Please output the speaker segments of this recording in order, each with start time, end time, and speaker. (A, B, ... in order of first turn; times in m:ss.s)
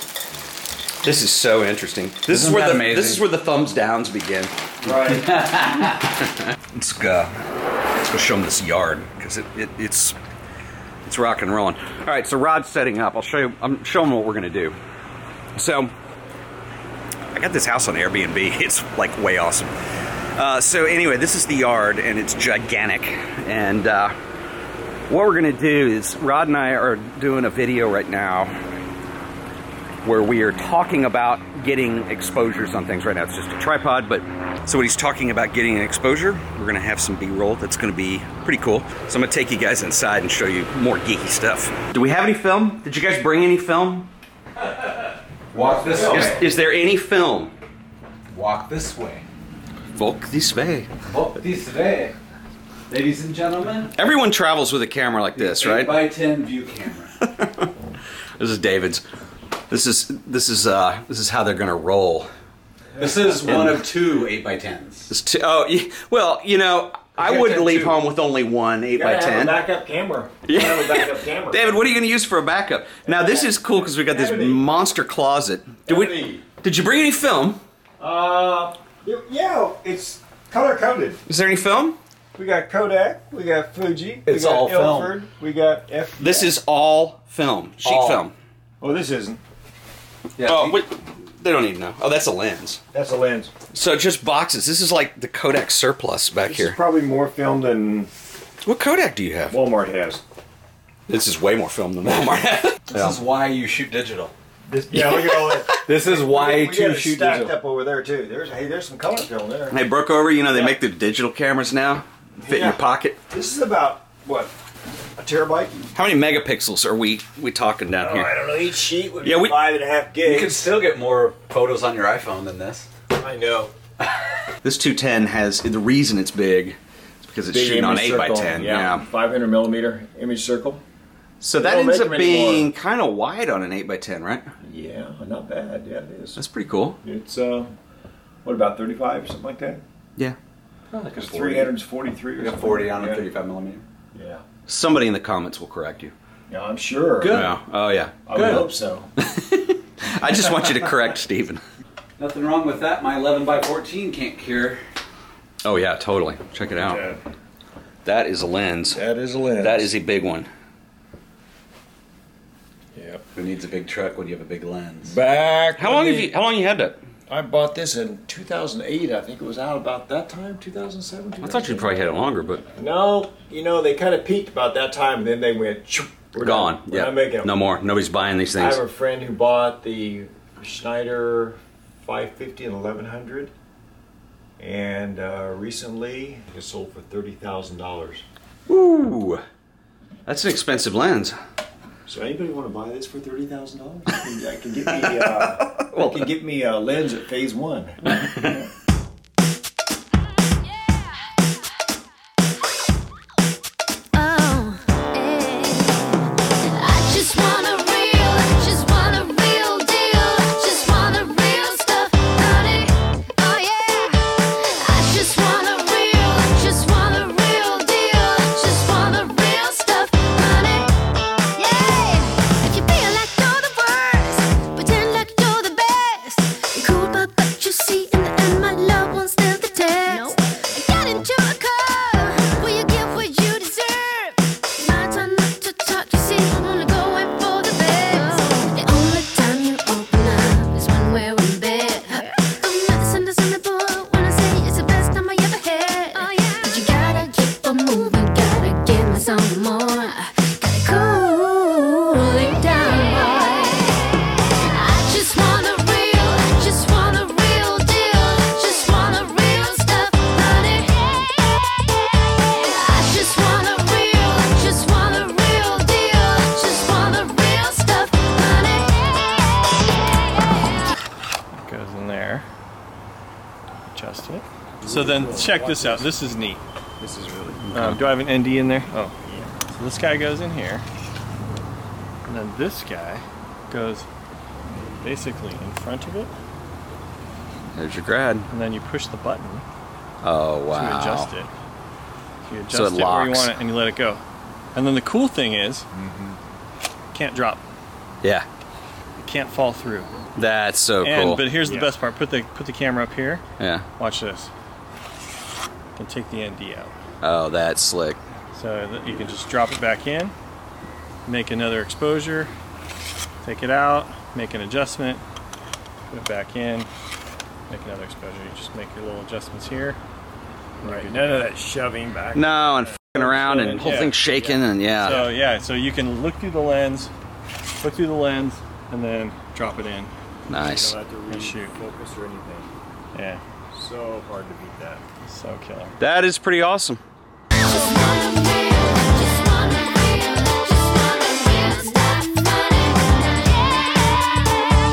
0:01.0-0:04.5 A
0:02.3-0:03.2 B
0:04.8-0:05.3 C
0:04.9-0:06.0 B
0:06.7-0:07.3 A
0:08.0-0:10.2 A
0:11.0-0:14.8 A
0:15.6-0:15.9 A
0:17.3-0:19.7 A
0:20.4-0:24.2 A
0:25.1-0:28.5 A
0:30.0-0:44.1 A
0:45.5-0:46.4 B
0:46.0-0:47.5 A
0:48.3-0:49.3 B
0:50.0-0:50.9 A
0:51.1-0:52.1 B
0:52.9-0:53.9 B
0:53.9-0:56.1 A
0:55.4-0:57.2 B
0:57.2-0:57.7 A
0:58.4-0:59.0 A
0:59.7-1:02.3 A
1:03.0-1:05.1 B
1:03.2-1:03.8 A
1:05.1-1:09.6 A
1:07.2-1:08.0 C
1:09.0-1:11.9 C
1:10.5-1:17.6 A
1:13.0-1:14.6 C
1:15.9-1:16.4 C
1:18.0-1:21.2 C
1:21.3-1:22.0 A
1:22.4-1:26.5 C
1:24.3-1:25.2 B
1:26.2-1:28.3 A
1:27.8-1:28.2 B
1:28.8-1:29.4 C
1:30.4-1:30.8 B
1:30.4-1:32.8 A
1:32.9-1:33.5 C
1:33.7-1:36.8 A
1:36.5-1:38.1 C
1:38.6-1:39.6 A
1:39.5-1:40.2 C
1:41.1-1:43.2 A
1:42.9-1:44.3 B
1:44.7-1:49.8 C
1:45.2-1:45.8 A
1:45.7-1:47.6 B
1:49.7-1:53.2 A
1:52.4-1:54.5 C
1:55.2-1:55.8 C
1:55.9-1:58.3 A
1:58.0-2:00.7 C
1:59.2-1:59.6 A
2:00.2-2:02.9 B
2:03.1-2:03.7 C
2:04.6-2:09.0 A
2:07.5-2:10.8 C
2:11.4-2:14.5 A
2:11.6-2:12.7 C
2:14.6-2:16.4 C
2:16.4-2:17.0 A
2:17.0-2:17.7 C
2:18.4-2:19.8 C
2:20.9-2:21.7 B
2:21.1-2:23.3 C
2:22.4-2:23.8 B
2:24.1-2:24.4 C
2:24.7-2:26.1 A
2:26.5-2:27.5 C
2:27.2-2:27.5 B
2:27.3-2:28.3 A
2:28.3-2:29.1 C
2:28.3-2:28.7 B
2:29.2-2:31.6 A
2:32.2-2:34.8 B
2:35.6-2:37.0 A
2:36.8-2:37.2 C
2:38.0-2:39.0 A
2:38.9-2:39.9 C
2:39.6-2:40.5 A
2:43.3-2:45.2 B
2:45.0-2:46.3 C
2:45.8-2:47.0 A
2:47.3-2:51.9 C
2:51.4-2:52.6 A
2:52.8-2:57.5 C
2:56.4-2:58.8 A
2:58.6-3:03.5 C
3:04.6-3:08.2 C
3:08.7-3:09.4 A
3:10.3-3:11.4 A
3:12.1-3:18.2 C
3:15.0-3:16.3 A
3:18.1-3:18.6 A
3:24.2-3:26.1 D
3:26.6-3:40.9 D
3:41.6-4:13.9 D
4:14.6-4:21.0 D
4:22.5-4:29.1 D
4:31.6-4:32.4 E
4:33.9-4:36.6 E
4:34.8-4:36.1 C
4:37.0-4:37.7 C
4:37.7-4:39.1 E
4:37.7-4:38.0 A
4:39.2-4:39.5 C
4:39.7-4:40.8 E
4:42.3-4:44.1 E
4:45.0-4:46.3 E
4:47.8-4:48.5 A
4:48.5-4:49.6 E
4:50.2-4:51.3 A
4:50.7-4:51.5 E
4:52.4-4:54.2 E
4:52.7-4:53.5 A
4:54.7-4:55.9 E
4:56.0-4:56.4 C
4:57.1-4:57.6 E
4:59.2-5:00.1 E
5:00.4-5:01.4 A
5:01.0-5:03.4 E
5:01.6-5:01.9 C
5:03.6-5:03.9 A
5:04.0-5:04.5 E
5:06.0-5:06.9 E
5:07.2-5:08.2 A
5:08.5-5:10.3 E
5:11.3-5:12.5 E
5:13.4-5:15.2 E
5:16.1-5:16.9 E
5:17.7-5:20.0 E
5:20.8-5:22.5 C
5:20.8-5:21.4 E
5:22.4-5:25.3 A
5:23.2-5:23.8 C
5:23.7-5:27.1 E
5:27.8-5:30.1 E
5:30.5-5:31.0 A
5:30.6-5:32.7 C
5:31.3-5:31.7 E
5:33.1-5:33.4 E
5:33.7-5:35.0 C
5:35.2-5:36.0 E
5:36.0-5:37.0 A
5:37.6-5:44.7 D